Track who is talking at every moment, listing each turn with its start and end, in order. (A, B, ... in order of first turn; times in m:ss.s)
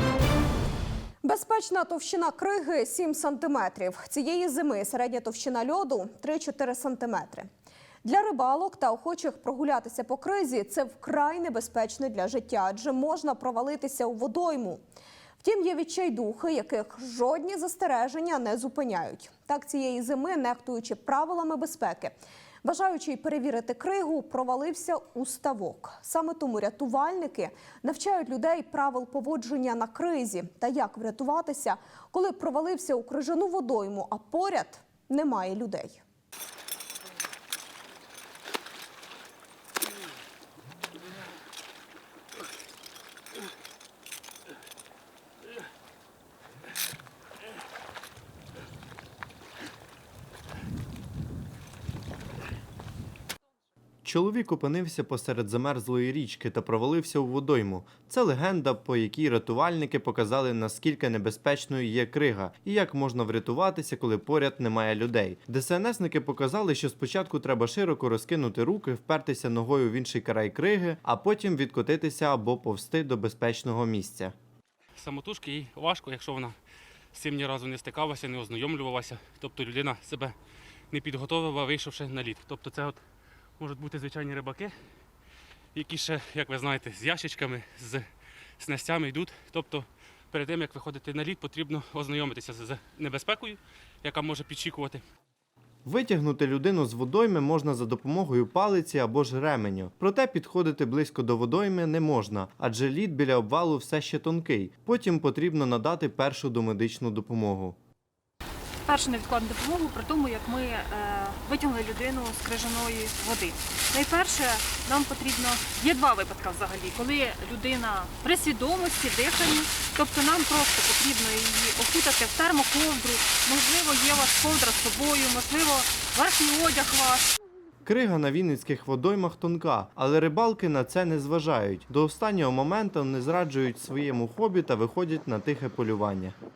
0:01.2-0:07.5 A
0:08.0-0:14.8 A
0:15.4-0:36.0 A
0:54.0-1:14.3 B
1:15.0-1:16.5 C
1:17.2-1:20.4 C
1:20.9-1:23.0 C
1:23.6-1:24.7 C
1:25.8-1:28.0 C
1:28.6-1:35.0 C
1:35.8-1:47.8 B
1:48.9-2:07.3 D
2:07.9-2:16.4 B